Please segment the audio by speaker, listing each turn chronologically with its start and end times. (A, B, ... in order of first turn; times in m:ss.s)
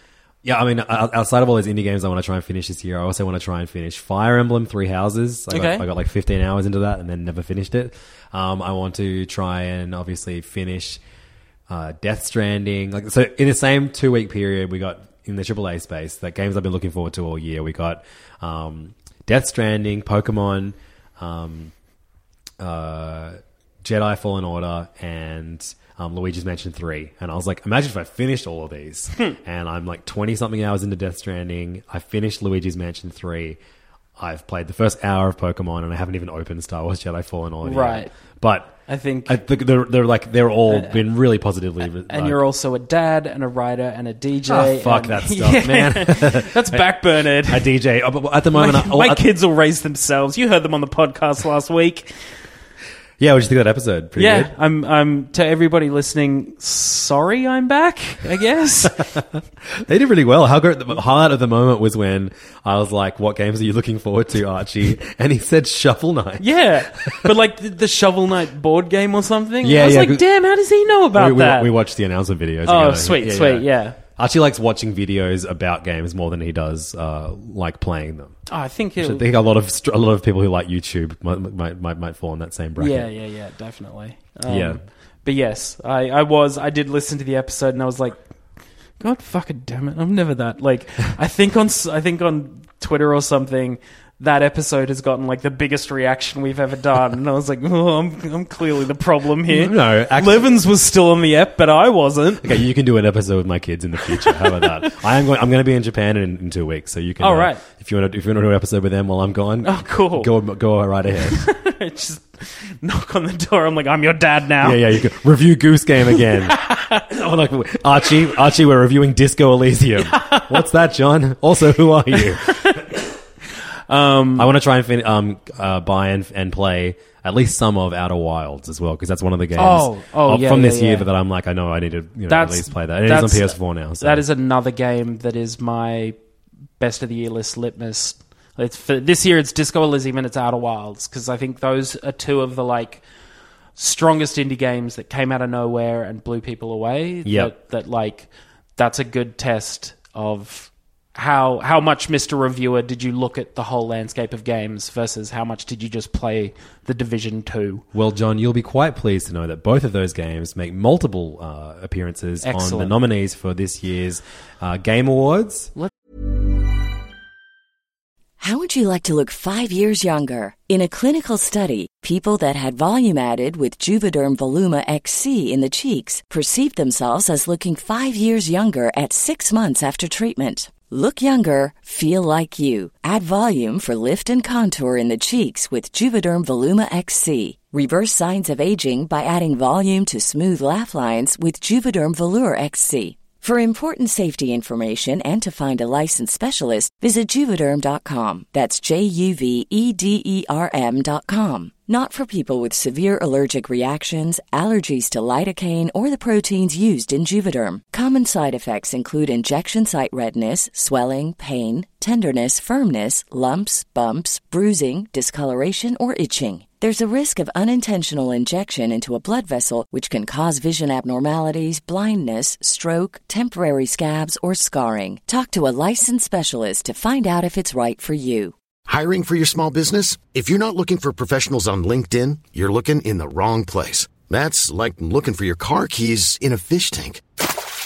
0:00.4-0:11.0 A
0:05.5-0:05.8 B
0:11.7-0:21.7 A
0:22.6-0:33.6 A
0:34.2-0:42.4 A
0:37.6-0:38.1 B
0:38.9-0:39.4 B
0:40.7-0:41.0 B
0:42.0-0:47.7 B
0:44.5-0:49.2 A
0:48.5-0:52.2 B
0:53.2-0:54.5 A
0:54.2-0:59.1 B
0:59.0-1:07.3 A
1:06.4-1:11.7 B
1:09.6-1:10.2 A
1:11.1-1:18.4 A
1:12.6-1:14.0 B
1:18.5-1:19.2 B
1:19.0-1:23.1 A
1:22.8-1:28.2 B
1:24.5-1:24.8 A
1:29.0-1:42.6 B
1:39.4-1:40.5 A
1:42.4-1:51.4 A
1:44.2-1:45.0 B
1:47.2-1:47.6 B
1:49.6-1:50.3 B
1:51.3-1:54.8 B
1:54.6-2:02.9 A
1:56.2-1:57.0 B
2:00.0-2:00.6 B
2:02.1-2:02.9 B
2:03.9-2:04.5 B
2:04.4-2:14.2 A
2:09.6-2:11.1 B
2:12.3-2:16.2 B
2:16.8-2:23.0 B
2:23.8-2:37.8 B
2:27.2-2:27.5 A
2:37.9-2:45.7 A
2:42.4-2:43.0 B
2:48.4-3:48.5 C
3:48.9-3:57.2 D